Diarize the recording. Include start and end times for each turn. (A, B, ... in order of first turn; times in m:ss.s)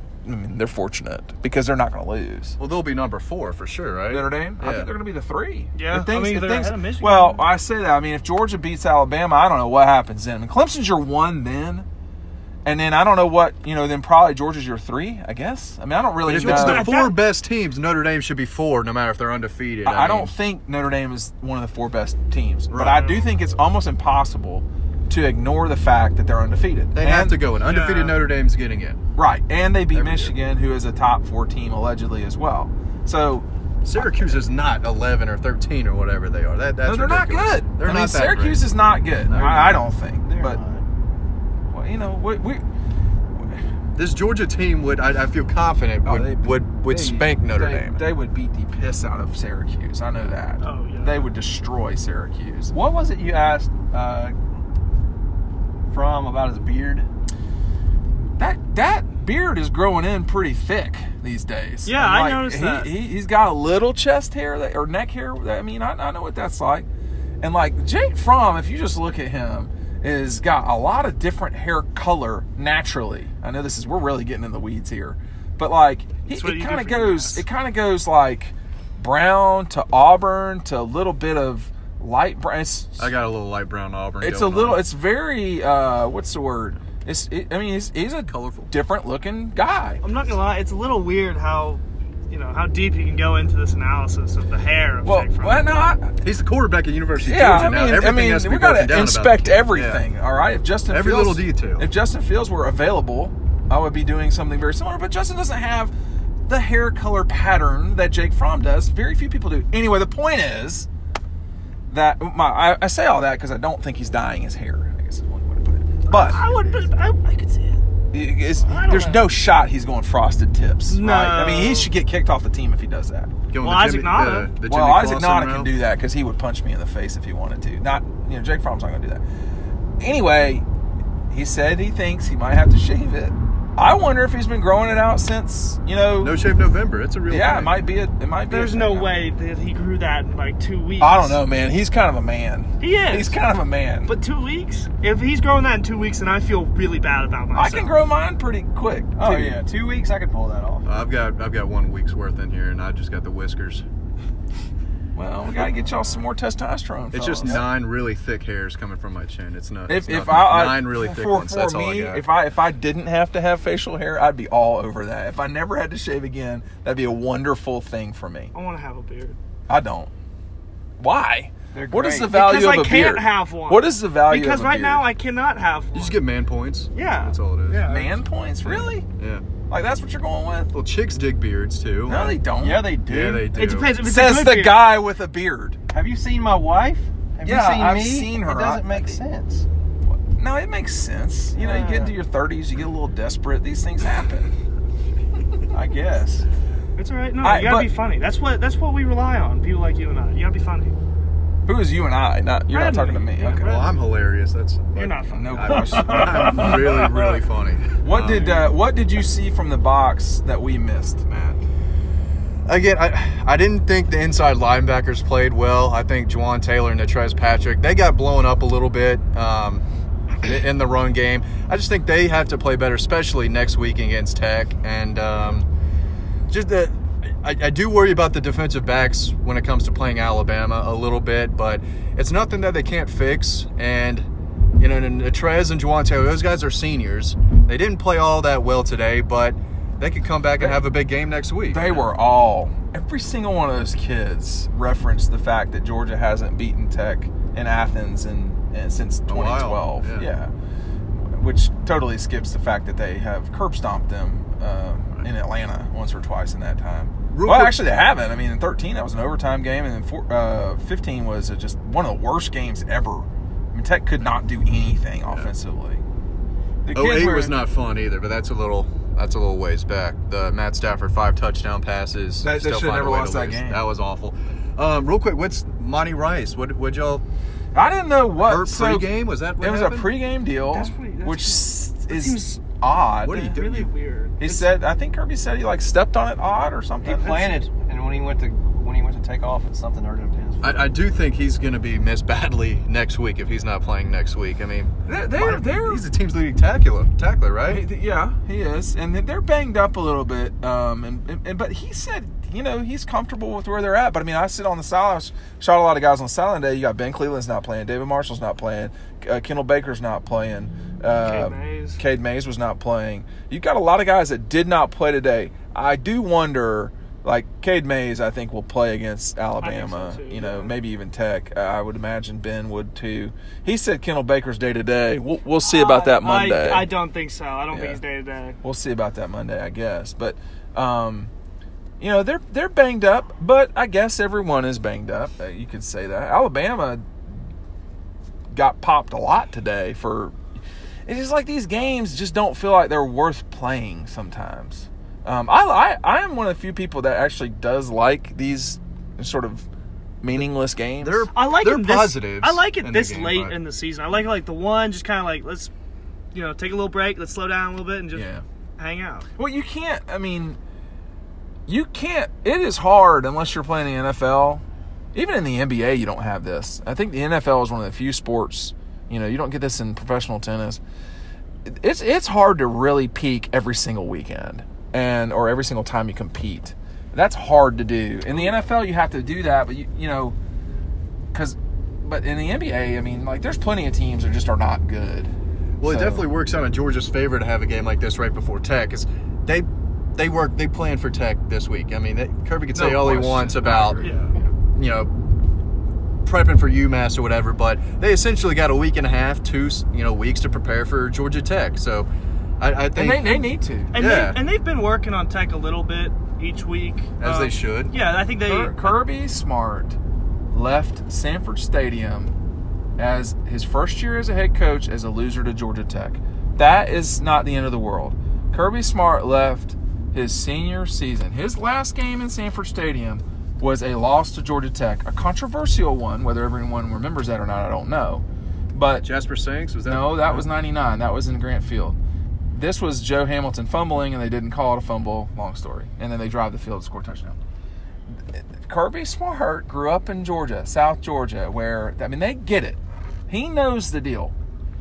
0:00.2-0:02.6 A
0:02.6-0:04.9 B
0:04.1-0:11.9 A
0:05.8-0:07.5 C
0:12.6-0:16.9 A
0:16.2-0:20.3 B
0:16.3-0:17.2 C
0:19.8-0:27.4 A
0:22.7-0:23.0 B
0:23.0-0:23.3 C
0:26.9-0:29.0 B
0:27.6-0:28.2 C
0:29.2-0:34.4 A
0:29.9-0:30.4 B
0:33.8-0:38.7 B
0:36.8-0:40.6 A
0:39.3-0:39.9 B
0:40.2-0:40.8 D
0:41.7-0:42.6 A
0:44.0-0:48.0 B
0:46.0-0:52.7 A
0:50.6-0:51.3 C
0:52.7-0:54.4 D
0:55.9-0:57.1 D
0:58.4-1:06.9 A
1:01.8-1:02.9 C
1:07.4-1:23.1 A
1:16.3-1:17.5 C
1:23.0-1:24.9 B
1:24.2-1:30.0 A
1:28.3-1:28.7 B
1:30.0-1:35.7 C
1:35.0-1:36.2 A
1:36.2-1:40.0 B
1:37.2-1:45.9 A
1:40.9-1:41.9 B
1:46.5-1:50.9 A
1:51.9-1:56.4 A
1:56.1-1:57.8 C
1:58.1-2:03.3 A
1:58.6-1:59.3 C
2:00.9-2:01.9 C
2:03.5-2:05.7 B
2:03.6-2:04.5 C
2:04.6-2:09.2 A
2:10.0-2:10.6 A
2:11.3-2:16.4 A
2:16.2-2:17.8 B
2:17.3-2:19.1 A
2:18.5-2:21.4 C
2:21.0-2:24.1 A
2:22.8-2:23.4 C
2:24.1-2:28.0 C
2:27.5-2:29.6 A
2:29.2-2:30.8 D
2:30.8-2:33.8 B
2:35.2-2:37.6 A
2:37.1-2:42.2 B
2:39.9-2:48.5 A
2:48.5-2:49.4 C
2:49.7-2:50.1 A
2:51.0-2:55.1 A
2:51.7-2:52.4 D
2:52.3-2:56.2 C
2:55.9-2:57.8 B
2:56.9-2:58.2 C
2:57.9-2:59.1 A
2:58.6-2:59.4 B
2:59.7-3:00.7 A
3:00.7-3:02.4 B
3:02.0-3:03.1 A
3:02.5-3:03.5 D
3:03.0-3:03.9 B
3:03.5-3:04.9 C
3:03.9-3:05.8 A
3:05.9-3:09.7 D
3:07.4-3:09.2 A
3:10.1-3:14.5 A
3:11.6-3:12.1 D
3:15.7-3:16.4 A
3:17.0-3:21.0 C
3:17.4-3:17.9 A
3:21.7-3:23.7 A
3:22.7-3:24.0 C
3:23.6-3:28.7 B
3:24.9-3:27.4 C
3:25.3-3:26.7 A
3:28.0-3:31.6 A
3:32.7-3:39.8 B
3:40.4-3:45.7 B
3:46.5-3:54.3 B
3:54.8-4:02.1 B
4:01.7-4:10.5 A
4:09.3-4:10.3 B
4:11.2-4:26.0 A
4:17.3-4:17.8 B
4:26.8-4:27.6 A
4:26.9-4:37.2 B
4:32.4-4:33.8 A
4:37.7-4:43.6 A
4:38.4-4:40.1 B
4:40.6-4:42.6 C
4:43.2-4:43.9 B
4:43.2-4:44.8 C
4:44.4-4:47.6 A
4:47.0-4:51.0 D
4:50.6-4:57.9 B
4:55.1-4:56.0 A
4:57.7-5:26.9 A
5:11.2-5:12.0 C
5:19.6-5:20.7 C
5:25.6-5:28.6 C
5:27.7-5:28.0 A
5:28.6-5:31.3 A
5:32.0-5:37.0 A
5:38.5-5:40.4 A
5:41.1-5:49.7 A
5:50.2-5:51.3 A
5:51.0-5:53.6 B
5:51.3-5:55.7 C
5:56.3-5:59.3 C
5:58.1-5:58.4 B
5:59.4-6:00.6 A
6:01.7-6:04.6 A
6:05.1-6:10.8 A
6:11.6-6:20.4 A
6:21.3-6:26.3 A
6:25.8-6:34.0 B
6:32.7-6:34.5 A
6:34.0-6:34.3 C
6:34.8-6:35.1 B
6:36.2-6:44.4 B
6:42.9-6:44.0 A
6:43.9-6:48.9 C
6:47.2-6:47.9 B
6:48.4-6:50.0 A
6:50.5-6:52.3 A
6:53.0-7:09.1 A
7:09.0-7:10.5 B
7:09.8-7:12.0 A
7:12.5-7:17.4 A
7:18.4-7:24.3 A